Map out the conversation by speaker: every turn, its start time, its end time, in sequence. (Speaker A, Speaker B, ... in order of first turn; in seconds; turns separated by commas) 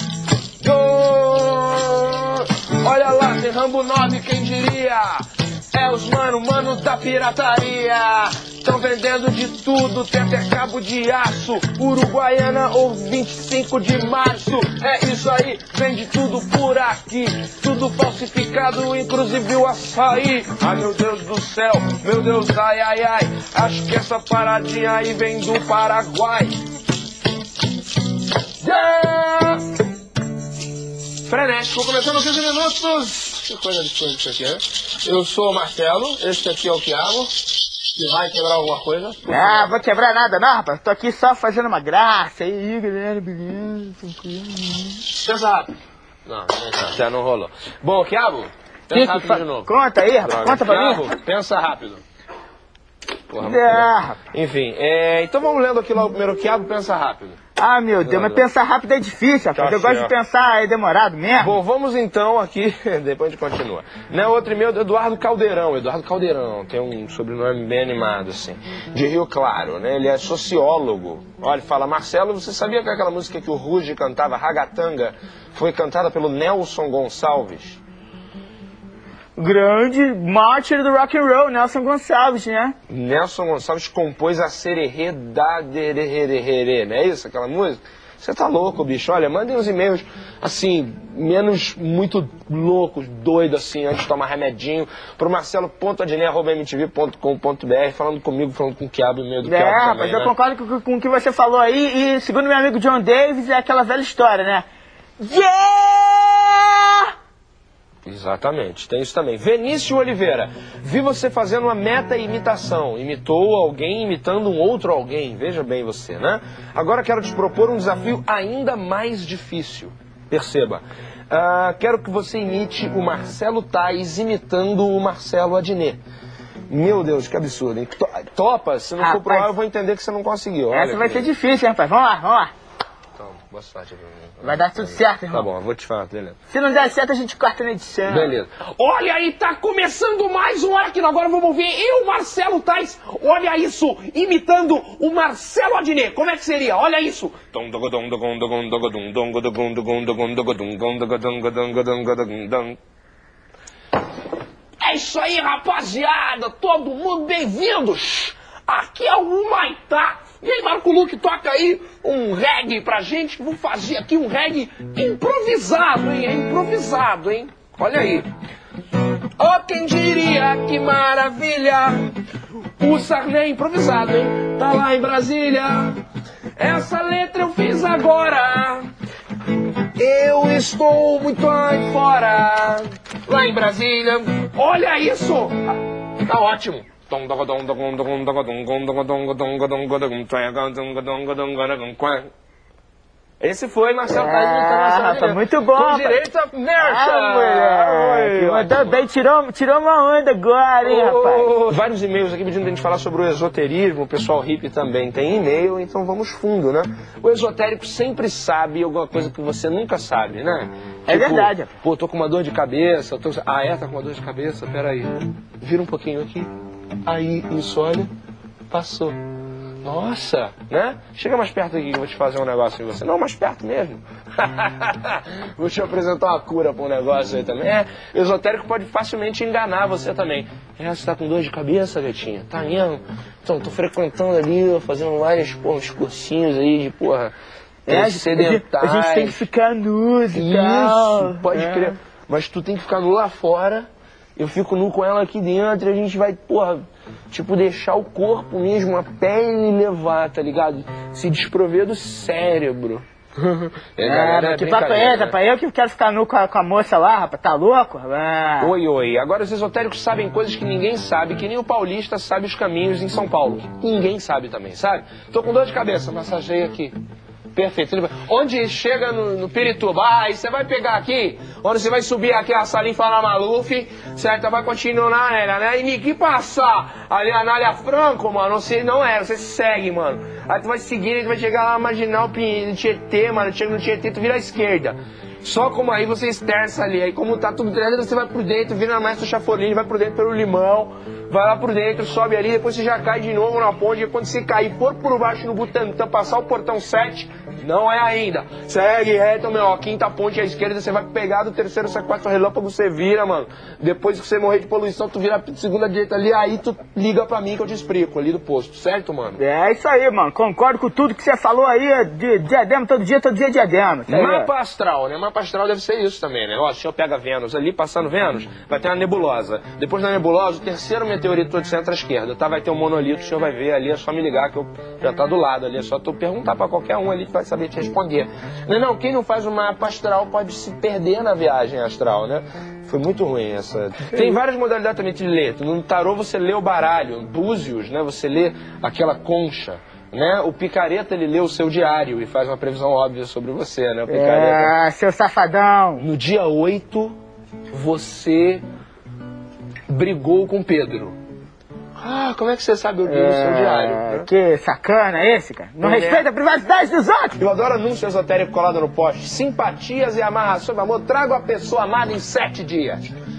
Speaker A: 0.6-5.2, Speaker A: 5.7-26.6, Speaker A: 28.6-29.6, Speaker A: 31.2-39.8, Speaker B: 39.3-45.0, Speaker A: 45.1-45.7, Speaker A: 46.3-49.7, Speaker B: 48.9-51.1, Speaker A: 50.2-52.0, Speaker A: 53.3-57.4, Speaker B: 53.4-54.2, Speaker B: 57.6-61.6, Speaker A: 58.0-58.5, Speaker A: 59.5-60.1, Speaker A: 61.4-77.8, Speaker B: 79.4-82.8, Speaker A: 82.9-100.3, Speaker B: 99.4-104.7, Speaker B: 105.2-107.0, Speaker A: 108.0-126.0, Speaker A: 126.7-131.3, Speaker B: 129.0-129.5, Speaker B: 130.7-132.5, Speaker A: 133.2-136.4, Speaker B: 134.4-135.5, Speaker B: 136.5-138.3, Speaker A: 138.1-152.8, Speaker A: 154.8-168.3, Speaker A: 169.4-172.2, Speaker A: 172.8-176.0, Speaker A: 176.6-178.9, Speaker A: 180.0-185.6, Speaker A: 186.2-192.3, Speaker A: 193.4-199.0, Speaker B: 194.1-196.2, Speaker B: 196.8-201.5, Speaker A: 200.8-216.5, Speaker B: 211.1-211.7, Speaker A: 217.0-218.1, Speaker A: 218.7-219.2, Speaker A: 219.8-237.3, Speaker B: 237.9-242.0, Speaker A: 237.9-239.5, Speaker A: 240.3-255.4, Speaker B: 254.0-258.8, Speaker A: 258.6-267.0, Speaker A: 267.5-309.4, Speaker B: 309.4-314.5, Speaker A: 314.1-344.8, Speaker B: 344.1-346.1, Speaker A: 346.0-347.1, Speaker A: 347.7-348.6, Speaker A: 349.9-351.2, Speaker A: 352.0-354.3, Speaker B: 353.1-357.4, Speaker A: 355.8-356.3, Speaker A: 357.4-363.1